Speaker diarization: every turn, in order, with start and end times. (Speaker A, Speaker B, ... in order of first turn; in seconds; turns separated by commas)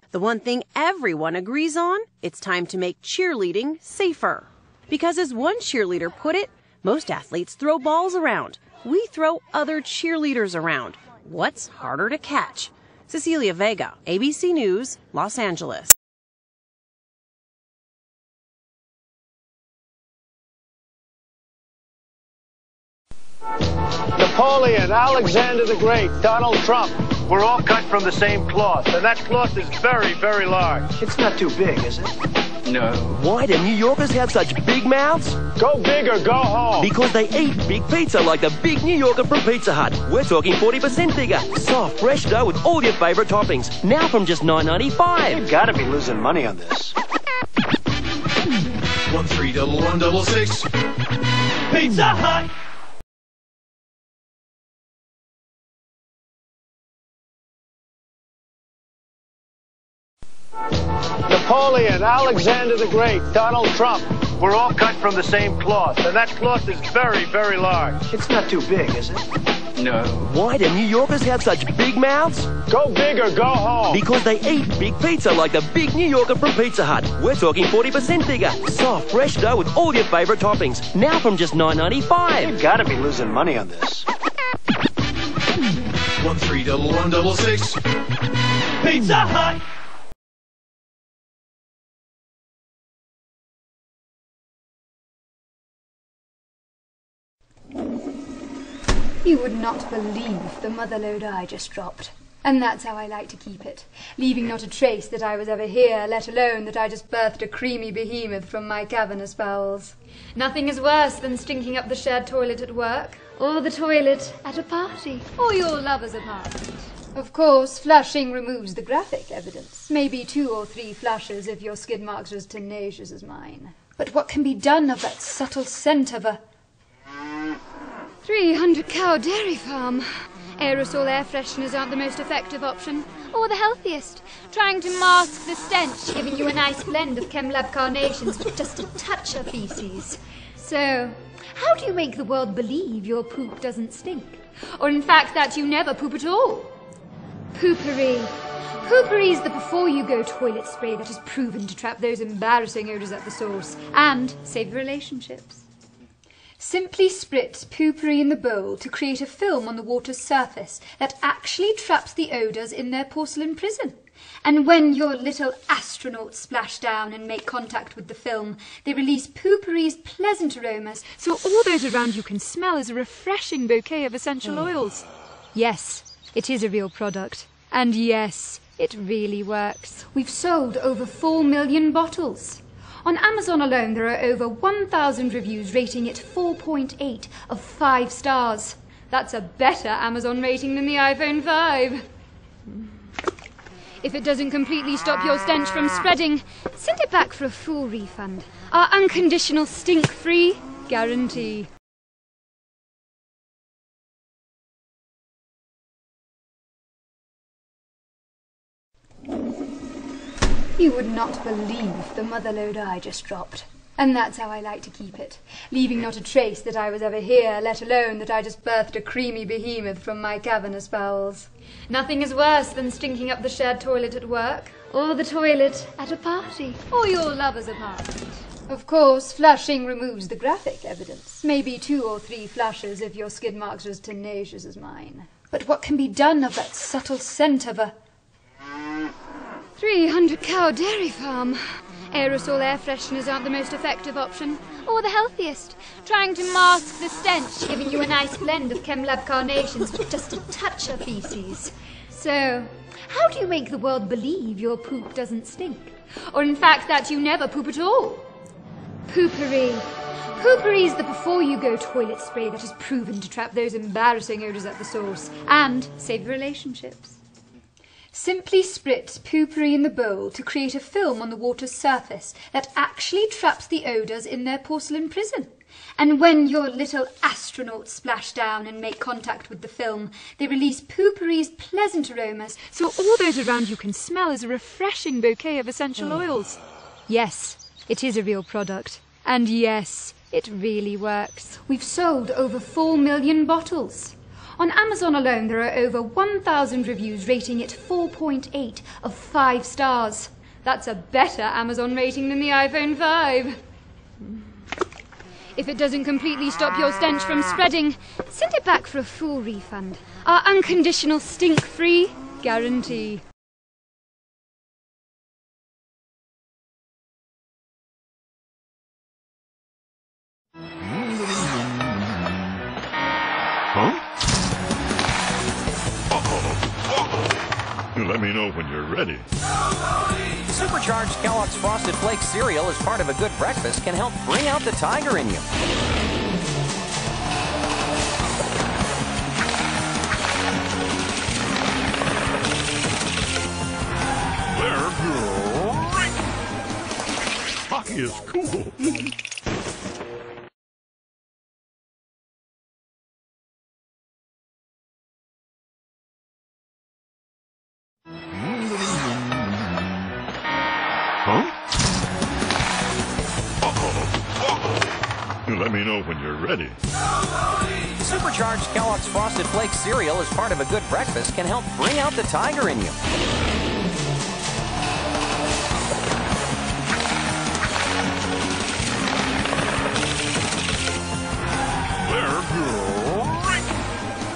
Speaker A: 0.1-15.9, Speaker B: 24.2-30.8, Speaker C: 32.7-35.4, Speaker B: 35.6-36.8, Speaker C: 36.8-45.4, Speaker D: 45.4-46.1, Speaker E: 49.1-50.7, Speaker B: 61.3-68.0, Speaker C: 69.8-72.5, Speaker B: 72.7-73.9, Speaker C: 73.9-82.6, Speaker D: 82.5-84.0, Speaker E: 86.2-87.8, Speaker E: 88.9-89.3, Speaker F: 99.2-126.4, Speaker F: 128.2-130.1, Speaker F: 130.6-146.7, Speaker F: 147.5-155.6, Speaker F: 156.6-192.0, Speaker F: 194.0-201.7, Speaker F: 210.8-237.9, Speaker F: 239.8-241.6, Speaker F: 242.1-258.3, Speaker F: 259.1-267.2, Speaker F: 268.1-303.6, Speaker F: 305.6-313.2, Speaker G: 320.8-322.3, Speaker G: 323.7-324.0, Speaker G: 326.1-327.2, Speaker G: 327.9-329.2, Speaker H: 330.5-335.4, Speaker G: 344.5-346.1, Speaker G: 347.7-349.0, Speaker G: 358.4-359.5, Speaker G: 361.2-361.5, Speaker G: 363.6-364.8, Speaker G: 365.5-366.8, Speaker H: 368.0-372.9, Speaker G: 382.0-383.6